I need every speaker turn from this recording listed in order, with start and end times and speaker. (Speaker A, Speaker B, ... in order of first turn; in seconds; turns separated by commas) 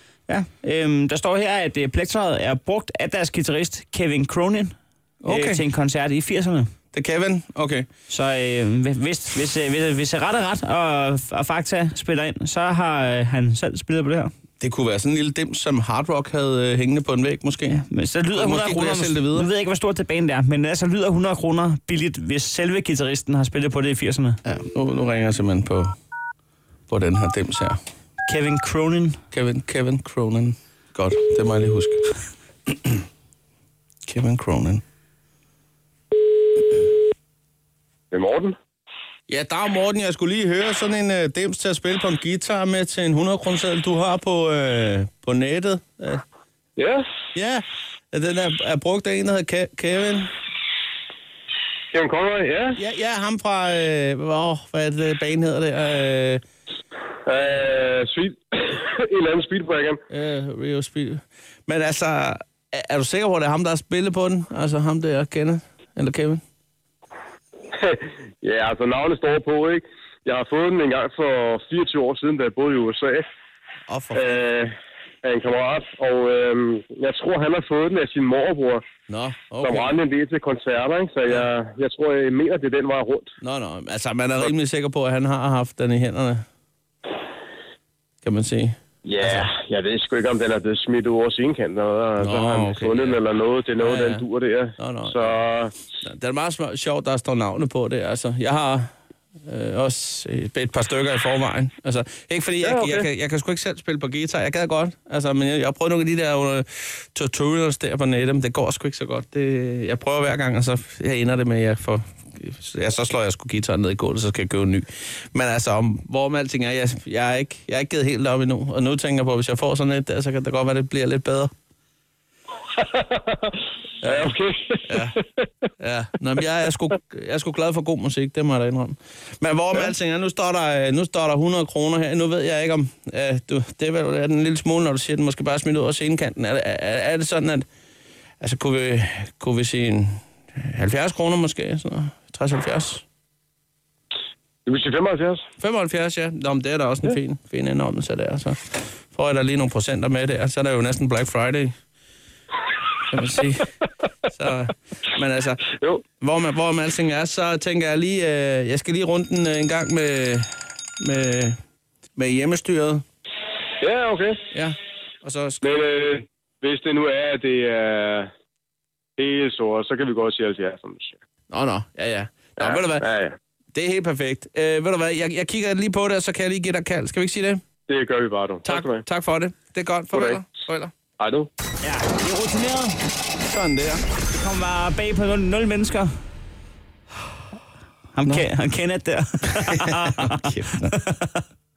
Speaker A: 0.3-4.7, Speaker B: 5.2-5.6, Speaker A: 5.3-6.7, Speaker B: 6.9-7.9, Speaker A: 8.1-14.3, Speaker B: 14.6-17.8, Speaker A: 17.7-24.4, Speaker B: 18.3-19.5, Speaker B: 24.4-25.9, Speaker B: 26.9-27.8, Speaker A: 28.3-29.2, Speaker B: 29.3-32.1, Speaker B: 32.7-33.0, Speaker B: 34.0-34.8, Speaker C: 38.1-38.5, Speaker B: 39.3-46.2, Speaker C: 46.8-47.0, Speaker B: 47.3-50.3, Speaker C: 51.9-52.8, Speaker B: 52.8-56.4, Speaker C: 57.2-60.0, Speaker B: 60.1-66.4, Speaker C: 67.7-73.2, Speaker B: 73.9-74.4, Speaker C: 74.1-74.7, Speaker C: 75.2-78.8, Speaker B: 79.1-79.9, Speaker C: 79.6-83.3, Speaker B: 83.4-86.4, Speaker B: 88.2-89.5, Speaker C: 89.0-95.8, Speaker B: 92.2-93.2, Speaker B: 93.8-94.2, Speaker B: 94.8-95.3, Speaker B: 96.0-98.9, Speaker B: 99.4-121.5, Speaker C: 102.6-103.0, Speaker C: 122.8-123.5, Speaker B: 124.0-125.2, Speaker C: 124.0-125.1, Speaker B: 125.8-137.6, Speaker B: 138.4-143.0, Speaker C: 144.7-145.4, Speaker B: 145.6-151.7, Speaker B: 153.1-153.6, Speaker B: 154.3-160.5, Speaker B: 161.0-161.6, Speaker B: 162.2-163.0, Speaker C: 163.8-164.4, Speaker B: 164.5-165.7, Speaker C: 165.6-168.3, Speaker C: 169.2-171.2, Speaker B: 171.5-173.0, Speaker C: 172.6-173.4, Speaker B: 173.7-177.6, Speaker C: 177.9-179.0, Speaker B: 178.6-180.9, Speaker C: 180.1-180.4, Speaker C: 181.2-181.5, Speaker A: 181.8-183.0, Speaker B: 183.4-184.0, Speaker A: 184.4-186.1, Speaker A: 188.1-191.4, Speaker B: 189.7-190.9